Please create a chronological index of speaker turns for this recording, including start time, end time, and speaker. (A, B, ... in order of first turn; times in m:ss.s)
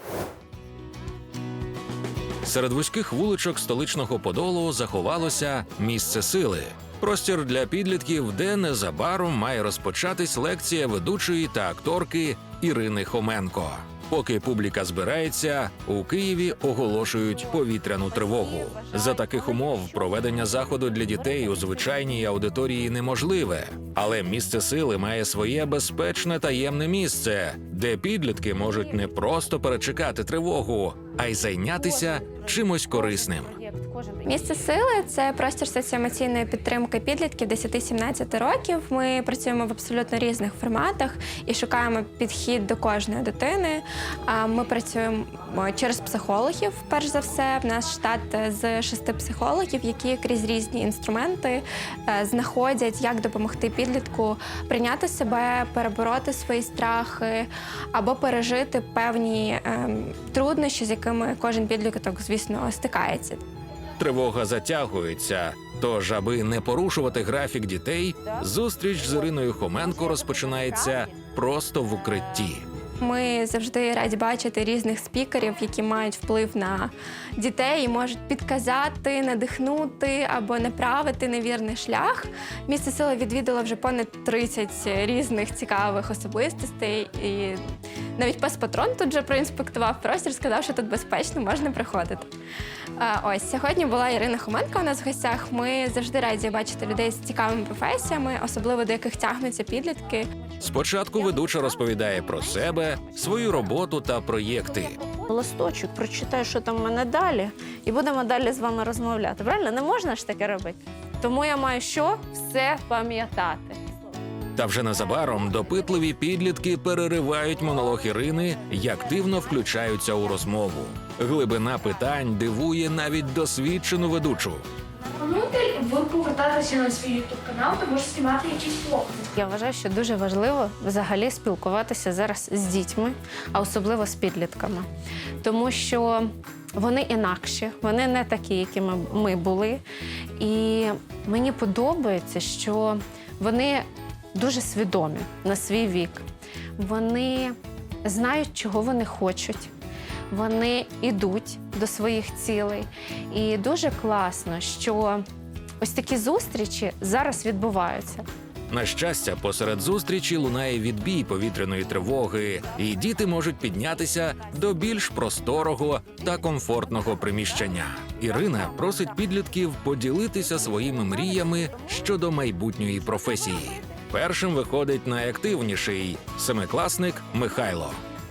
0:02.4-0:33.5 A
0:31.8-0:32.3 B
0:32.9-0:34.6 B
0:34.2-0:43.8 C
0:44.4-0:51.5 C
0:52.3-0:54.3 C
0:54.9-0:57.4 C
0:58.2-1:00.6 C
1:01.1-1:02.0 C
1:02.7-1:03.3 C
1:04.0-1:12.6 A
1:13.0-1:16.9 C
1:17.4-1:22.2 C
1:22.8-1:27.6 C
1:28.2-1:32.3 C
1:33.0-1:40.2 C
1:40.6-1:45.0 A
1:45.2-1:53.8 B
1:54.6-2:04.6 A
2:05.2-2:09.1 D
2:09.3-2:14.9 B
2:15.4-2:19.8 B
2:20.4-2:26.2 B
2:26.8-2:29.7 B
2:30.3-2:35.2 B
2:35.8-2:38.3 B
2:38.7-2:58.0 A